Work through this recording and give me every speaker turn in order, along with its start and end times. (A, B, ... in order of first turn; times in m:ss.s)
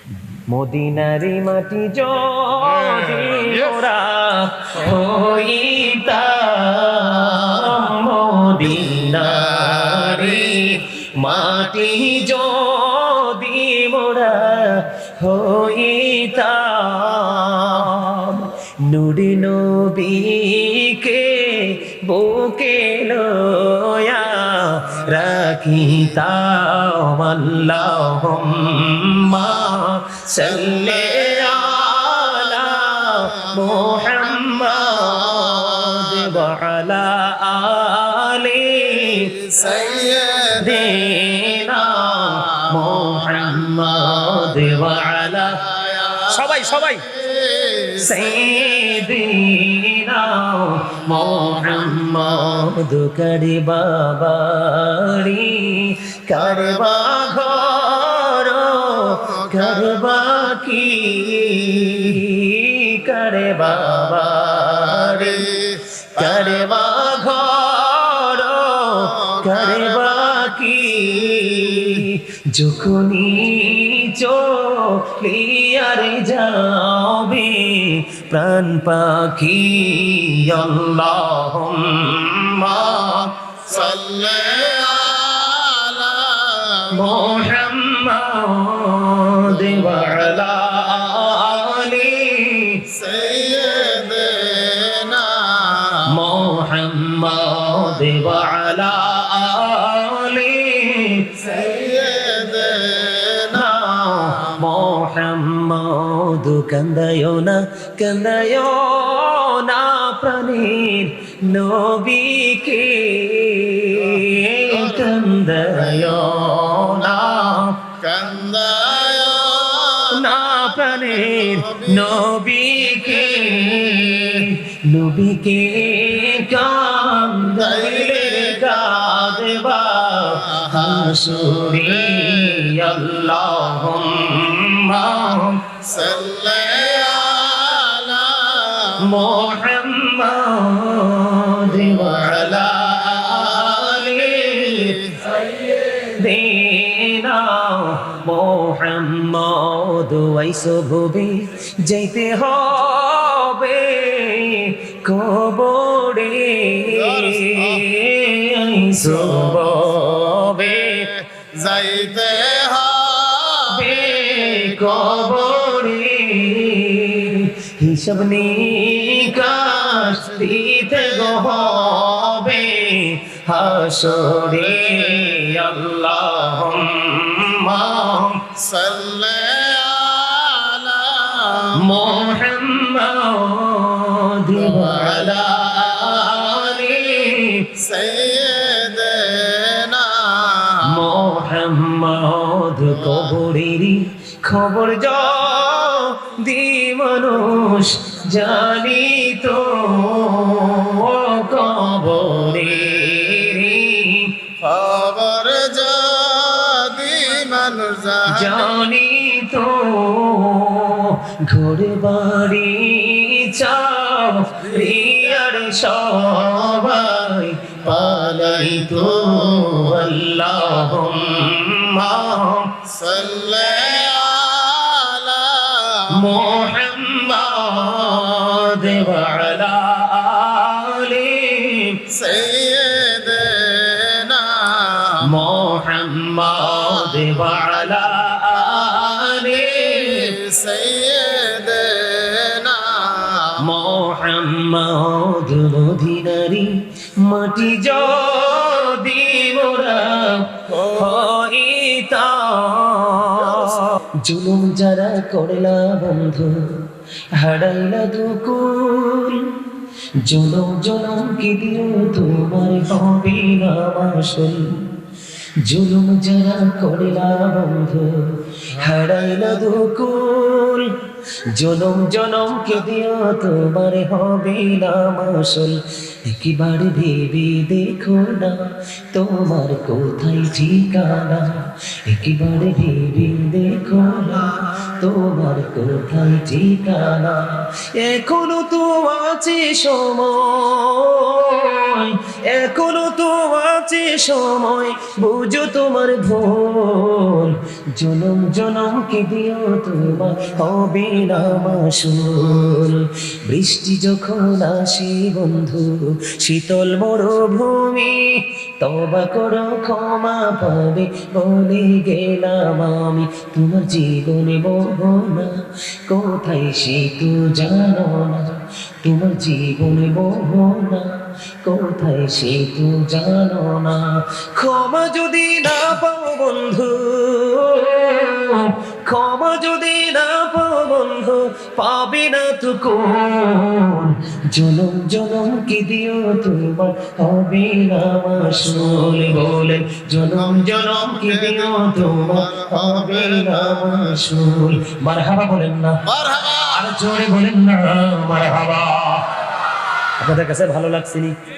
0:00.5-0:39.3 A
0:08.6-0:10.8 B
0:11.4-0:12.2 B
0:25.7-0:26.1 B
0:29.4-0:29.7 B
0:30.4-0:31.8 B
0:33.1-0:36.4 B
0:39.0-0:49.0 B
0:40.6-0:45.6 A
0:46.3-0:47.0 A
0:48.0-1:05.6 A
0:50.9-0:52.7 B
0:56.3-0:57.8 B
0:59.0-1:02.2 B
1:03.7-1:07.2 B
1:06.1-1:23.3 A
1:09.0-1:12.0 B
1:22.7-1:27.4 B
1:26.9-1:32.8 A
1:29.4-1:30.4 B
1:32.9-1:36.5 B
1:36.1-1:41.4 A
1:37.7-1:38.0 B
1:41.4-1:44.8 B
1:43.5-1:57.9 A
1:53.9-1:55.2 B
1:55.7-2:02.2 B
2:00.1-2:15.7 A
2:02.9-2:04.4 B
2:07.5-2:14.0 B
2:15.8-2:19.2 B
2:19.0-2:25.0 A
2:21.6-2:22.6 B
2:23.4-2:25.8 B
2:25.9-2:41.1 A
2:36.9-2:37.8 B
2:39.0-2:39.7 B
2:40.3-2:45.7 B
2:43.7-2:58.4 A
2:49.0-2:52.5 B
2:53.7-2:56.6 B
2:58.5-3:02.4 B
3:01.8-3:07.7 A
3:04.5-3:07.0 B
3:07.8-3:11.0 B
3:10.9-3:24.3 A
3:12.9-3:13.3 B
3:22.2-3:23.6 B
3:24.6-3:28.8 B
3:28.2-3:42.7 A
3:34.8-3:35.2 B
3:36.4-3:36.9 B
3:37.8-3:40.2 B
3:42.8-3:46.5 B
3:46.1-3:52.0 A
3:48.0-3:49.4 B
3:52.1-3:55.6 B
3:55.2-4:00.4 A
3:56.5-3:59.0 B
3:59.6-4:03.6 B
4:03.6-4:16.6 A
4:10.7-4:11.2 B
4:13.5-4:13.8 B
4:17.3-4:19.6 A
4:20.2-4:24.7 A
4:25.6-4:30.9 A
4:31.5-4:38.6 A
4:39.1-5:21.1 A
5:21.6-5:46.0 A
5:38.9-5:39.4 B
5:40.3-5:44.2 B
5:46.0-5:46.9 B
5:46.7-5:49.3 A
5:50.2-5:51.4 A